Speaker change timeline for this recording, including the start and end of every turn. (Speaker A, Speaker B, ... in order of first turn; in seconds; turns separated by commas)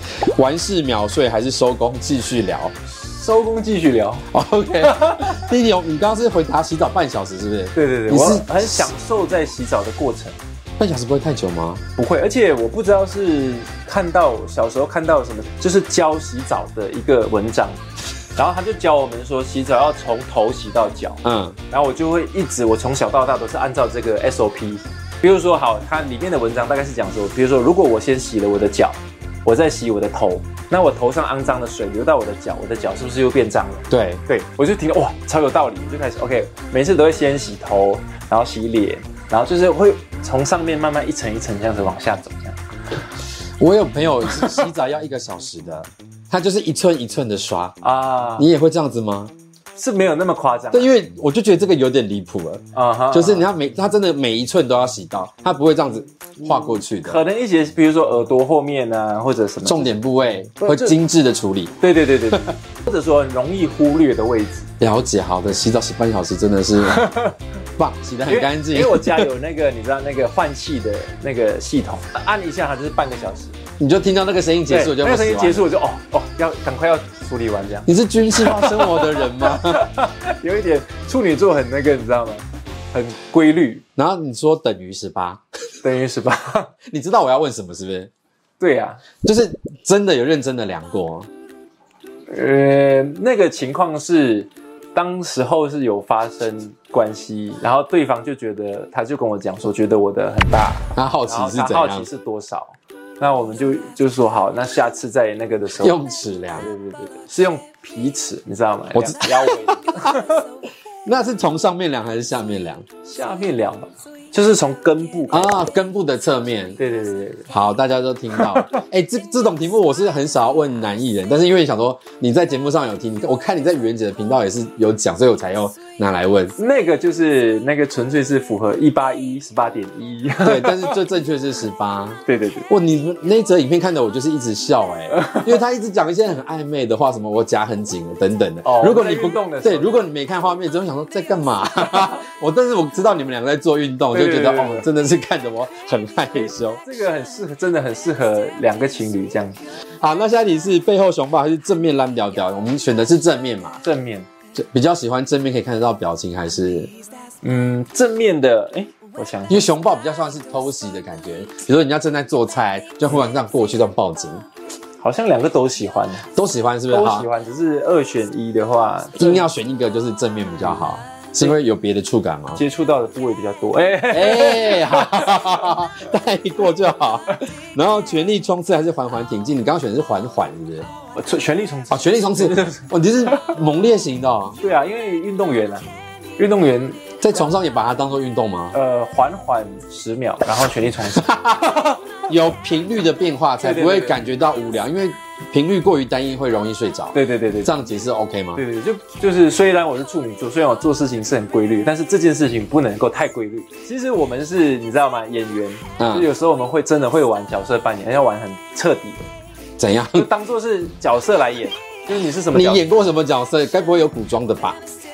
Speaker A: 0.2-2.7, Speaker B: 3.0-4.3, Speaker A: 4.3-8.9, Speaker B: 4.8-5.4, Speaker B: 7.7-10.4, Speaker A: 10.8-11.8, Speaker B: 12.0-17.8, Speaker B: 18.4-42.6, Speaker A: 21.2-21.6, Speaker A: 33.9-34.2, Speaker A: 43.6-47.8, Speaker B: 44.3-44.6, Speaker B: 47.8-48.5, Speaker A: 48.4-49.3, Speaker B: 49.8-50.9, Speaker A: 50.7-57.2, Speaker B: 52.7-53.5, Speaker B: 56.4-60.0, Speaker A: 59.6-61.8, Speaker B: 60.6-61.0, Speaker B: 61.8-64.7, Speaker A: 64.8-67.1, Speaker B: 66.8-67.3, Speaker A: 67.8-69.3, Speaker B: 68.3-73.6, Speaker A: 73.8-75.6, Speaker B: 74.7-83.8, Speaker A: 77.9-79.9, Speaker A: 84.0-85.4, Speaker B: 85.8-86.7, Speaker A: 86.9-88.1, Speaker B: 88.6-89.0, Speaker A: 89.2-91.3, Speaker B: 92.3-106.0, Speaker A: 101.0-102.1, Speaker A: 105.8-106.7, Speaker B: 106.6-110.4, Speaker A: 109.0-110.2, Speaker A: 111.0-112.8, Speaker B: 113.0-115.6, Speaker A: 115.3-116.8, Speaker B: 116.8-117.5, Speaker A: 117.5-126.6, Speaker B: 118.3-118.8, Speaker B: 126.6-131.0, Speaker A: 130.4-146.8, Speaker B: 132.3-132.7, Speaker B: 135.1-135.6, Speaker B: 138.6-140.1, Speaker B: 144.1-144.9, Speaker B: 146.3-149.6, Speaker A: 150.0-153.8, Speaker B: 153.8-154.3, Speaker A: 154.6-156.9, Speaker B: 157.4-159.7, Speaker A: 159.5-164.4, Speaker B: 165.0-166.3, Speaker A: 166.3-167.3, Speaker B: 166.9-169.5, Speaker A: 169.2-172.6, Speaker B: 172.6-175.5, Speaker A: 174.1-180.9, Speaker B: 181.2-183.6, Speaker A: 181.9-184.6, Speaker B: 184.6-185.9, Speaker B: 186.4-187.4, Speaker A: 187.2-188.8, Speaker B: 188.7-191.3, Speaker A: 191.2-198.6, Speaker B: 193.6-194.2, Speaker B: 197.1-197.7, Speaker B: 198.6-209.2, Speaker A: 206.0-206.3, Speaker A: 209.8-210.3, Speaker B: 210.1-212.8, Speaker A: 212.5-214.8